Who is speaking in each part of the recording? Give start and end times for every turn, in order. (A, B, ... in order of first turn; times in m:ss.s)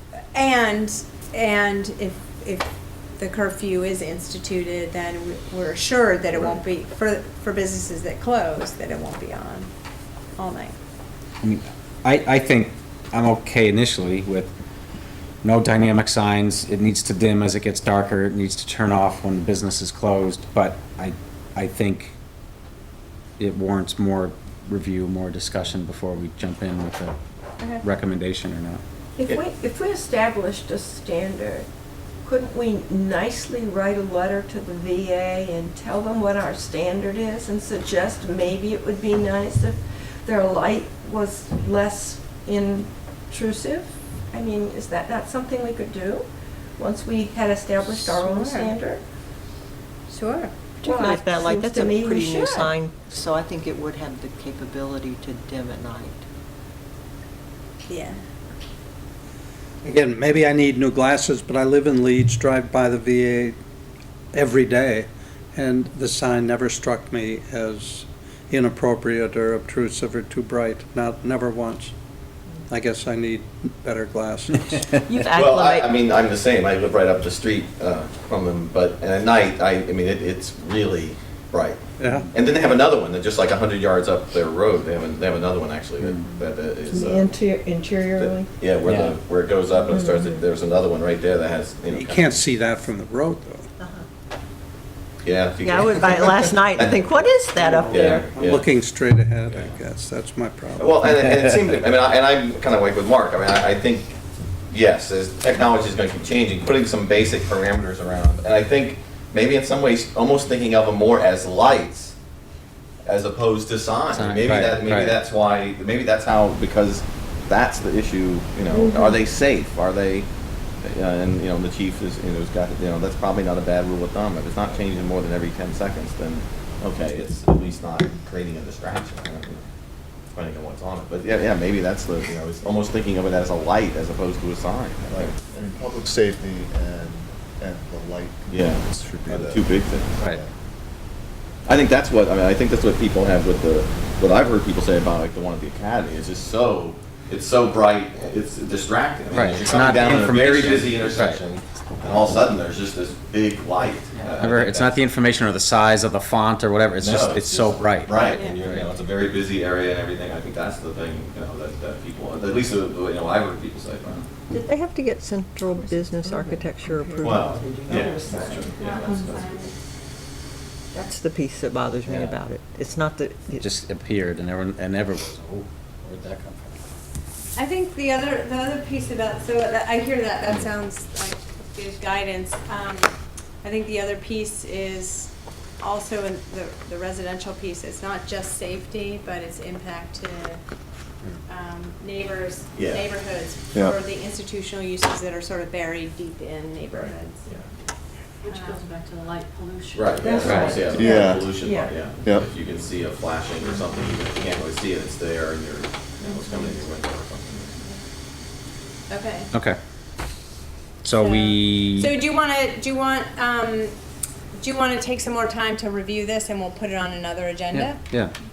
0:00.3-0:09.7 A
0:10.4-0:10.7 A
0:11.4-0:14.5 B
0:15.4-0:22.1 B
0:23.4-0:27.1 B
0:27.8-0:28.8 B
0:29.2-0:31.7 C
0:32.2-0:46.2 C
0:46.8-0:49.0 C
0:47.8-0:48.7 A
0:50.1-0:50.5 A
0:50.8-0:52.7 C
0:50.8-0:56.2 D
0:57.9-0:58.2 A
0:59.8-1:03.6 E
1:04.3-1:11.9 E
1:12.7-1:15.0 E
1:15.1-1:15.9 D
1:15.3-1:21.8 F
1:22.0-1:22.3 E
1:22.3-1:27.4 F
1:26.9-1:28.5 C
1:28.1-1:32.4 F
1:28.8-1:29.2 B
1:29.9-1:30.3 C
1:31.9-1:33.7 E
1:33.8-1:34.0 D
1:35.2-1:38.7 F
1:35.6-1:38.3 D
1:37.5-1:41.5 E
1:39.5-1:39.7 F
1:40.8-1:44.1 F
1:44.7-1:52.1 F
1:53.0-2:00.3 F
1:54.1-1:55.2 B
1:58.7-1:59.2 C
2:00.8-2:09.6 F
2:10.3-2:15.3 F
2:15.1-2:20.5 G
2:18.5-2:20.1 F
2:21.7-2:35.0 F
2:29.3-2:31.4 B
2:34.1-2:38.9 B
2:37.0-2:44.3 F
2:38.2-2:38.6 A
2:44.5-2:47.4 D
2:45.7-2:49.5 C
2:47.2-2:49.7 F
2:48.8-2:49.7 A
2:50.9-2:53.6 D
2:52.0-2:52.3 B
2:53.6-2:56.7 B
2:57.6-3:10.6 A
3:11.5-3:17.5 A
3:12.7-3:13.1 F
3:16.9-3:17.6 F
3:18.4-3:20.9 H
3:18.5-3:18.9 A
3:19.9-3:27.8 F
3:20.2-3:21.9 C
3:20.9-3:21.5 G
3:22.2-3:22.5 G
3:29.1-3:29.5 A
3:29.5-3:29.8 B
3:31.0-3:32.1 B
3:31.2-3:34.0 A
3:34.6-3:38.0 A
3:37.7-3:38.3 B